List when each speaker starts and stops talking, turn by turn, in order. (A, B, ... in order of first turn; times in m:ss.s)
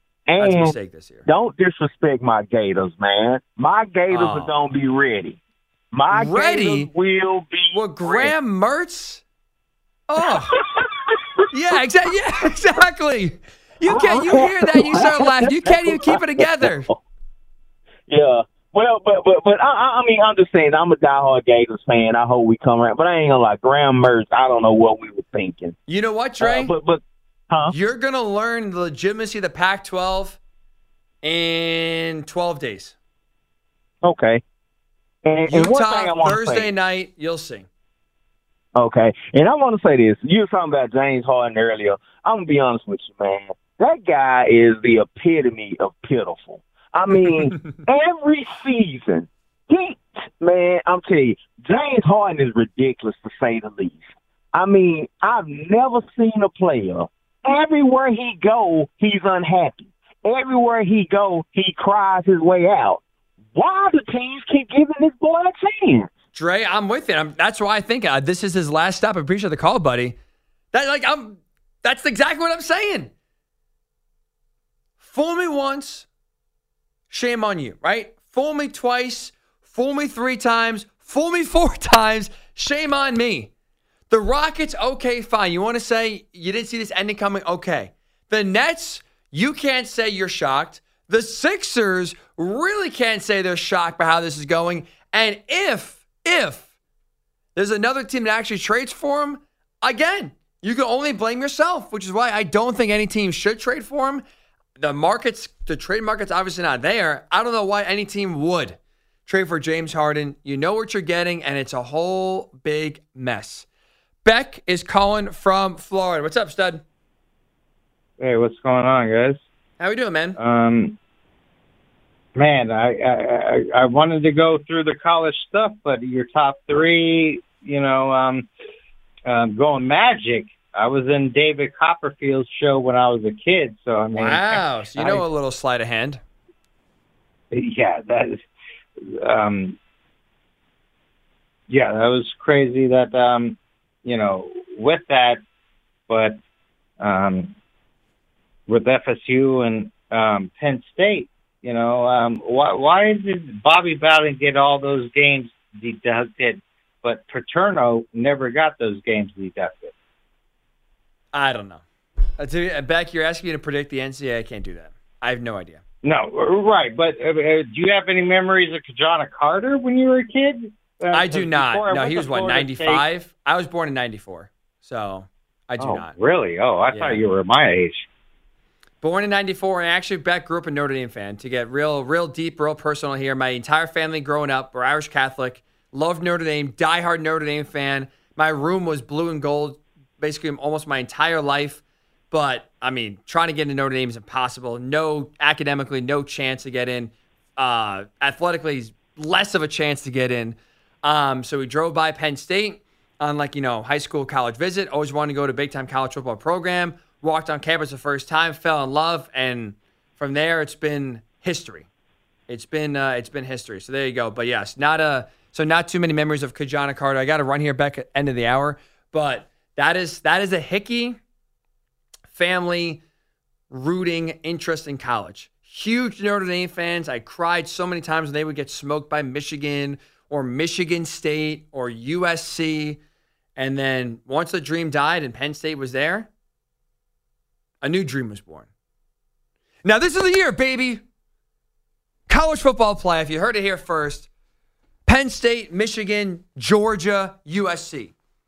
0:00.3-0:00.8 A
0:00.4-0:01.2 B
0:01.3-0:05.4 A
0:04.1-0:04.5 B
0:05.9-0:08.3 A
0:06.1-0:06.9 B
0:07.7-0:09.2 B
0:10.1-0:10.6 B
0:10.2-0:11.2 A
0:11.5-0:16.9 B
0:13.9-0:17.0 A
0:18.1-0:25.8 A
0:25.9-0:26.7 B
0:26.4-0:27.7 A
0:27.7-0:30.4 B
0:31.2-0:32.9 B
0:34.0-0:34.4 A
0:35.2-0:36.7 A
0:35.5-0:37.7 B
0:38.8-1:03.0 A
1:03.5-1:06.1 A
1:06.3-1:10.2 B
1:10.7-1:13.1 B
1:15.0-1:16.1 B
1:17.1-1:23.5 B
1:24.1-1:36.7 B
1:37.5-1:44.2 B
1:44.8-1:53.6 B
1:54.2-1:56.8 B
1:58.2-1:59.4 C
1:59.8-2:00.4 B
2:00.4-2:01.0 C
2:02.3-2:08.5 C
2:09.3-2:15.2 C
2:14.1-2:16.2 B
2:17.5-2:18.4 C
2:19.2-2:19.8 C
2:21.7-2:25.4 C
2:26.1-2:26.4 C
2:27.0-2:27.5 C
2:28.7-2:39.9 C
2:41.3-2:41.8 B
2:42.4-2:45.8 B
2:46.0-2:53.0 C
2:51.1-2:56.1 B
2:55.8-2:58.1 C
2:56.9-2:57.2 B
2:59.0-3:31.9 B
3:32.5-3:41.2 B
3:42.3-3:43.0 B
3:43.7-3:53.0 B
3:53.6-3:56.3 B
3:57.8-3:58.7 B
3:59.8-4:01.0 B
4:02.3-4:04.3 B
4:05.0-4:08.1 B